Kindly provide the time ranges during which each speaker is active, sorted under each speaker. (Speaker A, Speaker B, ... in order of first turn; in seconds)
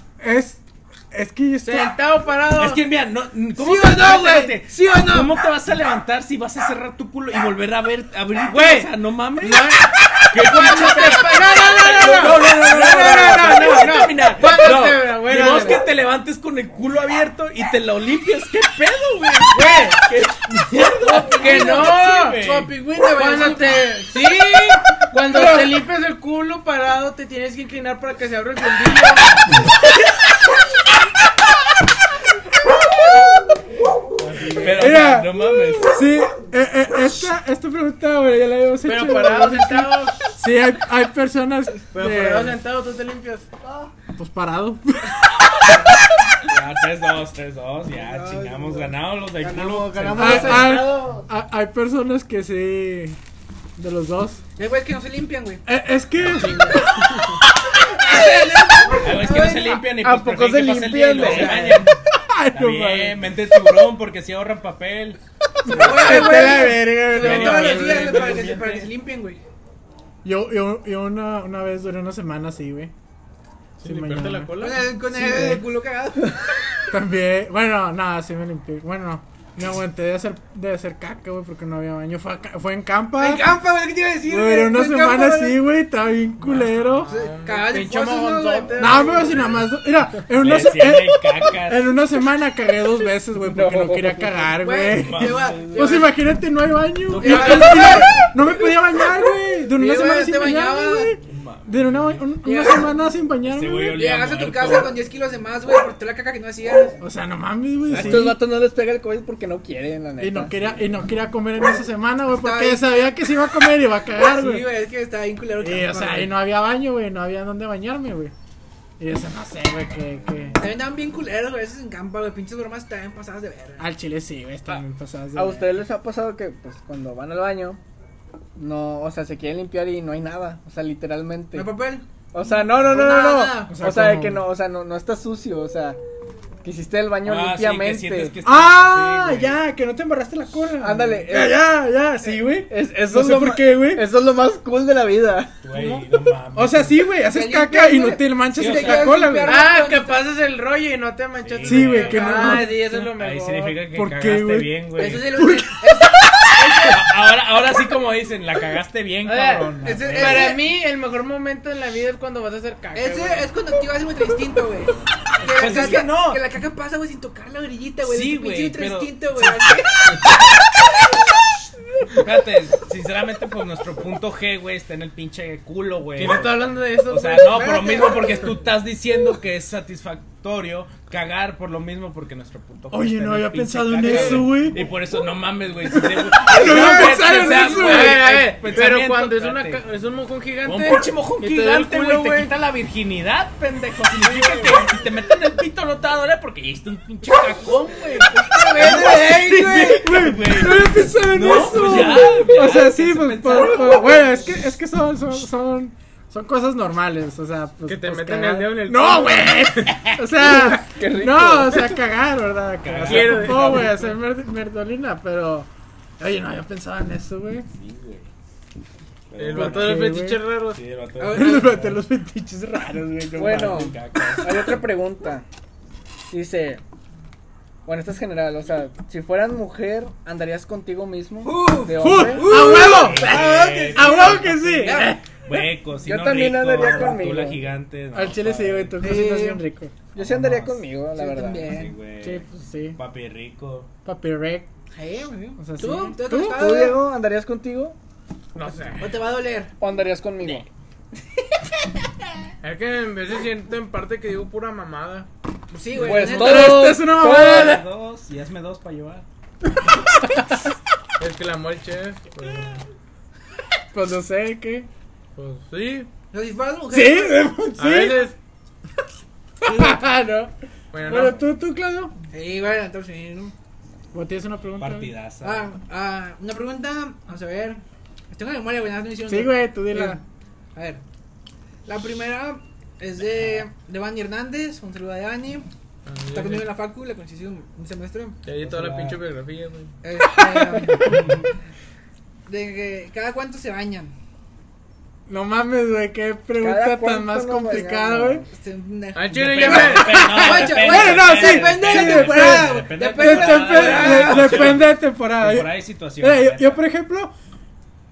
Speaker A: 0.2-1.9, 12.1-12.4, 25.3-25.7, 34.7-42.6, 44.2-45.7, 50.1-53.2, 53.8-54.4, 55.6-56.9, 60.0-63.2, 65.7-68.2, 70.2-72.9, 73.8-75.6, 76.9-83.5, 84.3-87.1, 88.8-104.0, 107.0-108.4, 110.2-114.7, 115.6-118.3, 119.0-120.6, 123.8-125.7, 133.7-134.5, 138.4-144.1, 146.5-149.6, 151.6-153.1, 153.9-156.2, 182.9-184.8, 185.9-188.3, 199.9-215.7, 216.2-217.7, 219.5-220.4, 221.3-223.8, 232.0-233.4, 233.9-235.2, 238.1-239.9, 242.2-243.0, 244.1-244.7, 245.6-246.8, 256.2-257.8, 260.2-260.6, 263.9-264.9, 266.9-268.3, 269.6-272.1, 274.1-275.1, 279.3-280.2, 290.4-291.1, 295.3-298.4, 300.0-307.3
Speaker B: 1.6-2.8, 8.5-15.8, 19.5-20.0, 21.2-22.4, 23.2-29.3, 34.2-35.1, 38.9-40.3, 41.9-43.5, 56.4-57.4, 73.8-74.9, 86.5-89.5, 97.2-97.9, 145.7-146.1, 149.4-153.8, 159.2-163.5, 165.6-166.0, 176.2-177.9, 184.0-184.5, 186.9-192.5, 194.4-194.7, 207.9-209.9, 213.1-214.0, 219.4-220.8, 248.6-249.2, 252.6-255.3, 261.2-262.8, 265.4-266.1, 267.8-268.4, 270.9-271.4, 286.1-286.7, 288.4-289.9, 299.1-300.4
Speaker C: 2.5-22.7, 34.6-36.0, 46.5-50.9, 59.0-62.0, 62.5-65.2, 65.8-66.5, 67.1-68.9, 89.3-89.6, 90.3-92.0, 94.9-96.0, 97.2-97.7, 101.2-102.3, 103.4-105.0, 107.9-108.3, 137.2-139.6, 145.6-147.1, 148.6-149.2, 151.4-155.4, 156.8-160.6, 165.4-166.4, 168.0-170.2, 172.2-189.8, 190.6-204.5, 209.9-210.2, 212.8-214.0, 217.7-218.3, 219.3-222.0, 223.4-224.8, 232.3-239.0, 240.2-240.9, 241.6-243.9, 255.9-259.2, 274.8-275.7, 288.6-289.2, 291.0-291.4, 299.3-306.8
Speaker D: 3.6-5.3, 21.1-24.1, 47.9-49.0, 50.0-50.5, 54.6-55.6, 57.9-59.9, 61.2-61.9, 65.7-69.4, 74.6-76.6, 83.2-85.6, 87.1-89.5, 94.6-96.1, 97.2-98.3, 99.8-101.2, 102.4-102.9, 103.9-107.0, 112.3-112.9, 114.2-116.4, 120.6-123.8, 131.5-133.7, 147.2-150.2, 152.1-152.7, 154.9-157.1, 159.8-160.6, 162.9-170.2, 177.6-178.4, 198.4-200.2, 221.2-221.8, 231.4-235.2, 239.0-239.6, 241.2-242.0, 244.9-247.0, 249.0-249.7, 255.7-256.9, 266.3-267.4, 272.3-273.5, 275.4-280.2, 280.8-281.0, 281.9-285.7, 286.3-288.4, 290.0-291.5, 292.5-294.1, 298.5-304.8
Speaker E: 49.4-51.2, 61.2-61.7, 93.5-94.6, 107.9-110.7, 125.3-127.8, 128.6-131.7, 132.3-136.0, 136.6-138.4, 140.8-141.6, 142.7-145.5, 210.4-212.0, 223.4-225.5, 226.3-226.8, 227.9-232.8, 236.0-237.6, 240.2-241.8, 246.5-248.0, 249.8-250.7, 256.0-257.8, 296.6-298.5